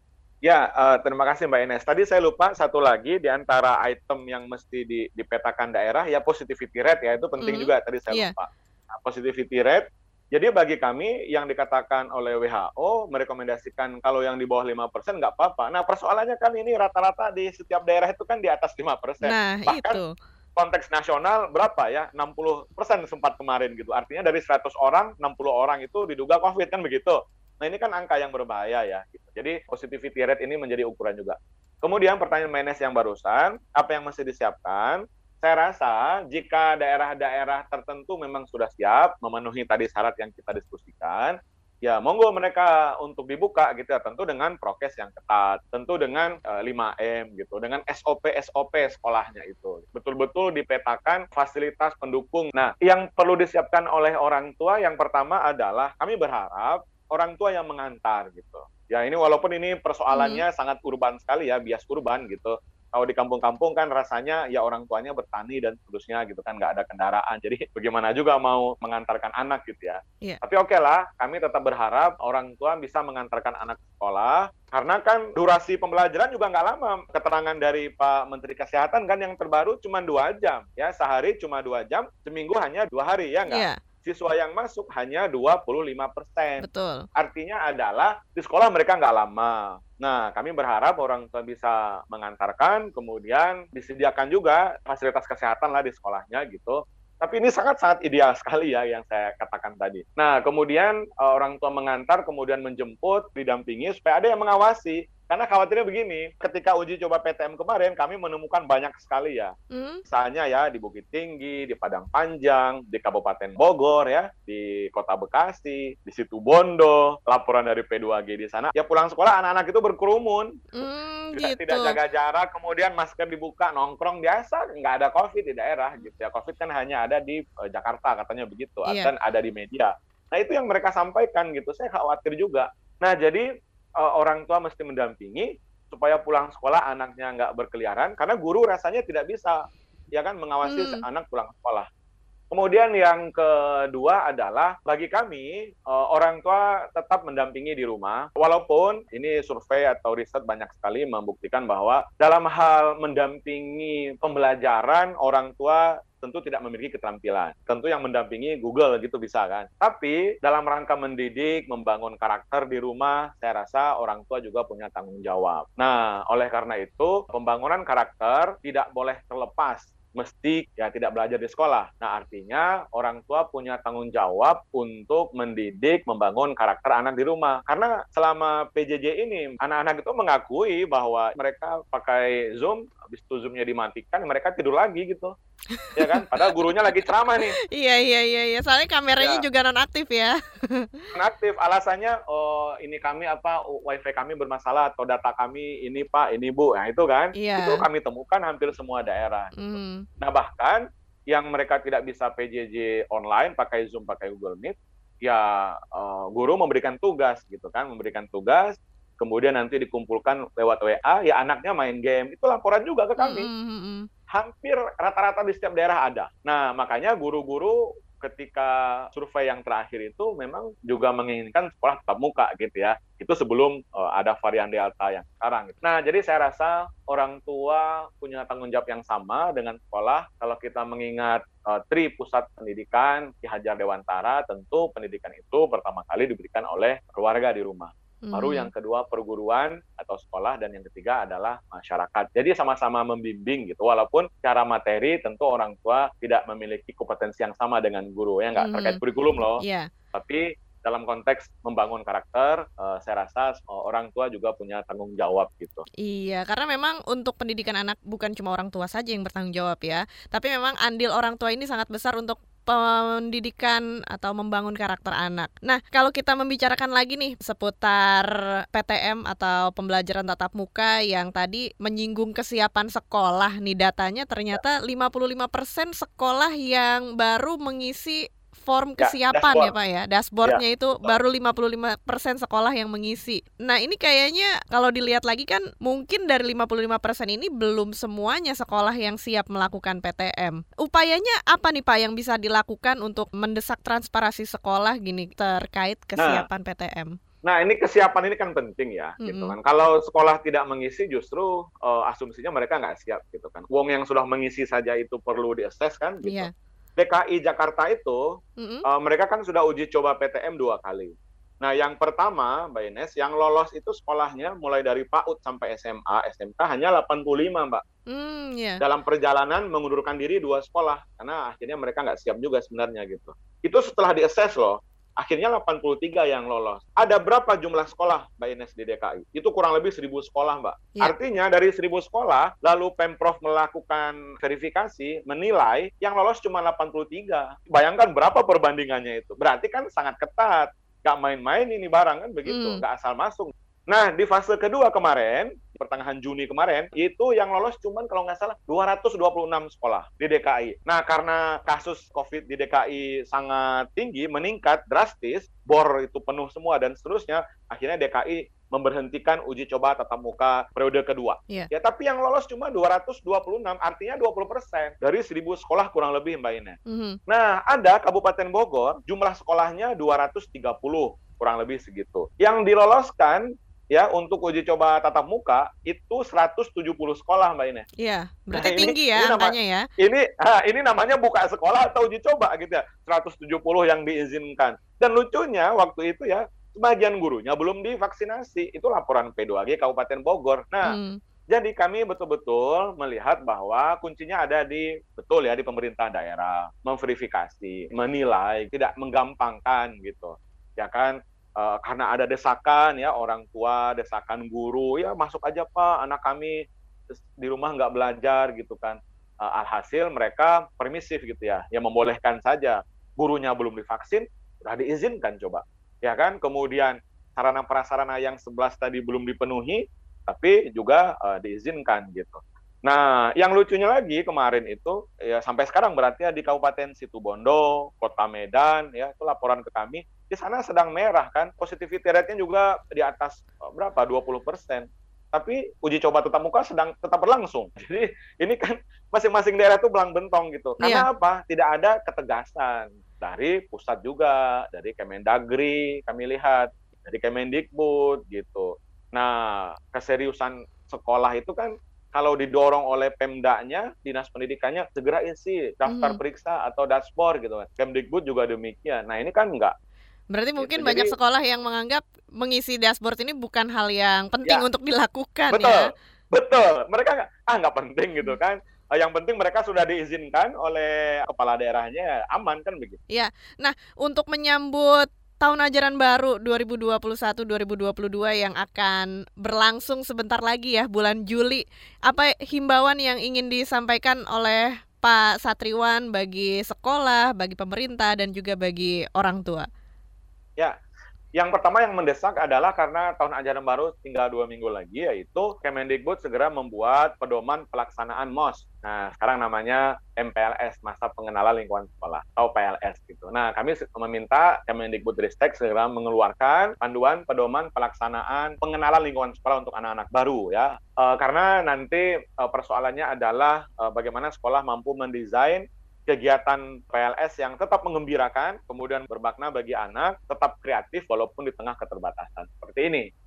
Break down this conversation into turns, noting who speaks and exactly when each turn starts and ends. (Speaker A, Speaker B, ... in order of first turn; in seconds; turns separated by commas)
Speaker A: 0.4-20.0, Speaker B: 7.4-8.3, Speaker B: 19.2-20.1, Speaker A: 20.6-86.6, Speaker B: 60.1-60.4, Speaker B: 83.5-83.8, Speaker B: 86.6-87.0, Speaker A: 87.2-109.5, Speaker B: 109.7-110.0, Speaker A: 110.1-120.5, Speaker B: 120.8-122.0, Speaker A: 121.3-133.4, Speaker A: 134.0-139.6, Speaker A: 140.1-141.8, Speaker B: 140.6-141.0, Speaker A: 142.5-185.3, Speaker B: 185.7-186.5, Speaker A: 185.9-187.6, Speaker B: 187.7-191.1, Speaker A: 191.1-199.6, Speaker B: 197.3-197.8, Speaker B: 199.6-200.0, Speaker A: 200.2-213.5, Speaker B: 213.2-214.1, Speaker A: 214.3-249.6, Speaker B: 238.2-238.7, Speaker B: 248.6-249.0, Speaker B: 249.6-249.9, Speaker A: 250.1-255.8, Speaker B: 256.0-297.1, Speaker A: 279.0-279.7, Speaker A: 280.4-281.2, Speaker A: 296.2-296.4, Speaker A: 297.4-308.2, Speaker B: 299.2-299.5, Speaker B: 306.2-306.5, Speaker B: 308.6-308.9, Speaker A: 308.9-317.8, Speaker B: 318.1-318.8, Speaker A: 318.8-377.9, Speaker B: 342.5-342.8, Speaker B: 366.9-367.2, Speaker B: 378.0-379.9, Speaker A: 378.5-390.9, Speaker B: 390.8-391.2, Speaker A: 391.5-406.6, Speaker A: 407.4-459.7, Speaker B: 440.8-441.1, Speaker B: 455.9-456.2, Speaker B: 460.3-465.9, Speaker A: 460.6-461.1, Speaker A: 465.5-473.0, Speaker B: 473.1-489.7, Speaker A: 491.3-523.0